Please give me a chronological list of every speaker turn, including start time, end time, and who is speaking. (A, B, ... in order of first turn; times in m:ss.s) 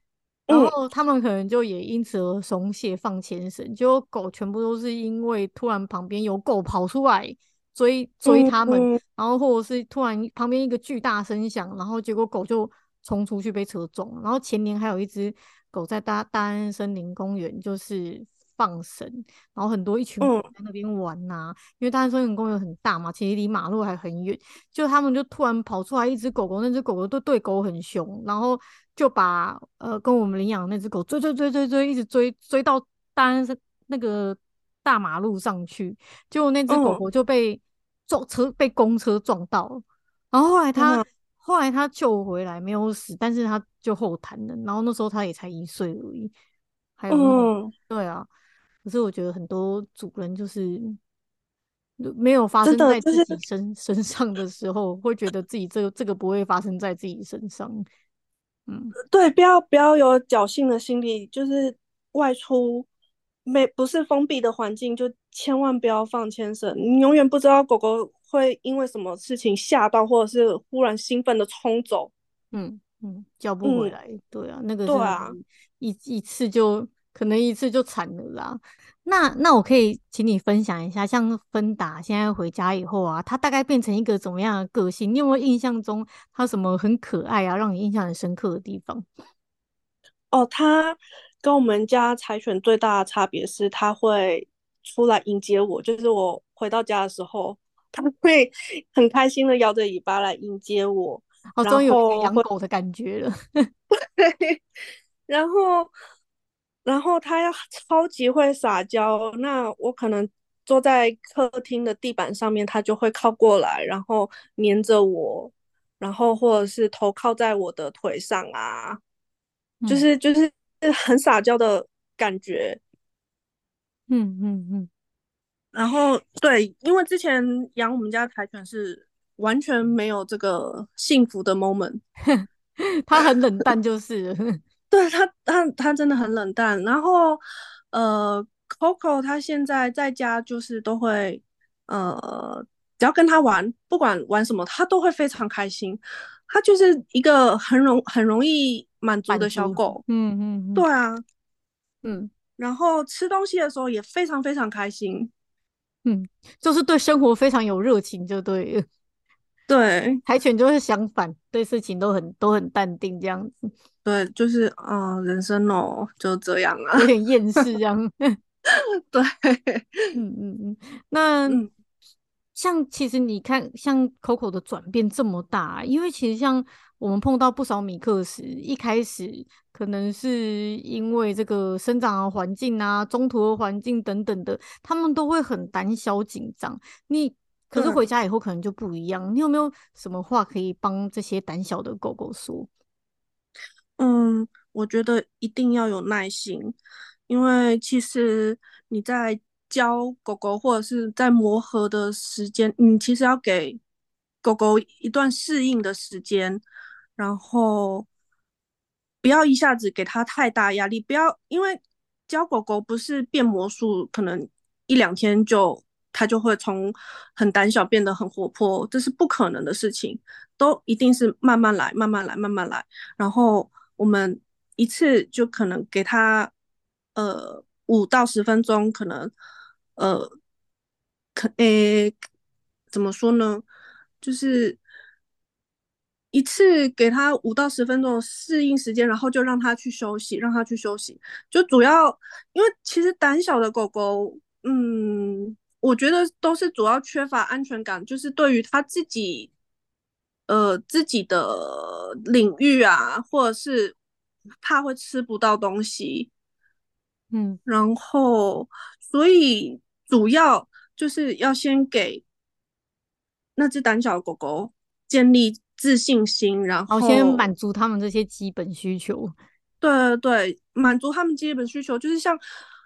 0:00.5-0:00.7 A
0:00.5-0:46.3 B
0:08.2-0:09.0 A
0:20.2-0:20.5 A
0:36.7-0:37.0 A
0:40.8-0:41.0 A
0:47.0-0:48.3 B
0:47.1-0:47.7 A
0:48.8-0:51.0 B
0:52.0-0:57.8 B
0:52.6-0:53.4 A
0:58.7-0:58.9 B
0:59.1-1:02.9 A
1:03.4-1:12.1 A
1:12.5-1:29.0 B
1:13.6-1:13.9 A
1:14.8-1:15.3 A
1:30.3-1:42.4 A
1:41.6-1:43.7 B
1:43.9-1:44.6 A
1:45.3-1:45.9 A
1:46.8-1:59.0 A
1:59.9-2:02.8 A
2:04.1-2:04.9 B
2:05.7-2:12.0 A
2:12.2-2:14.6 B
2:14.9-2:30.0 A
2:29.3-2:30.8 B
2:30.7-2:31.2 A
2:32.0-2:32.3 B
2:32.6-2:35.3 A
2:36.0-2:38.8 B
2:39.7-2:40.2 A
2:40.2-2:43.7 B
2:44.0-2:47.1 A
2:46.9-2:48.4 B
2:48.7-2:50.2 A
2:50.1-2:51.6 B
2:52.6-3:12.7 B
3:07.7-3:08.0 A
3:14.0-3:16.8 A
3:17.3-3:23.8 A
3:24.4-3:26.6 A
3:27.2-3:28.1 A
3:29.2-3:46.5 A
3:47.1-3:49.3 A
3:50.0-3:50.3 A
3:51.3-3:52.1 A
3:52.9-3:53.6 A
3:54.2-3:54.8 A
3:56.3-4:09.5 A
4:10.5-4:14.0 A
4:14.6-4:16.3 A
4:17.3-4:17.6 B
4:17.7-4:22.2 A
4:23.6-4:27.5 A
4:26.9-4:29.3 B
4:29.8-4:32.4 A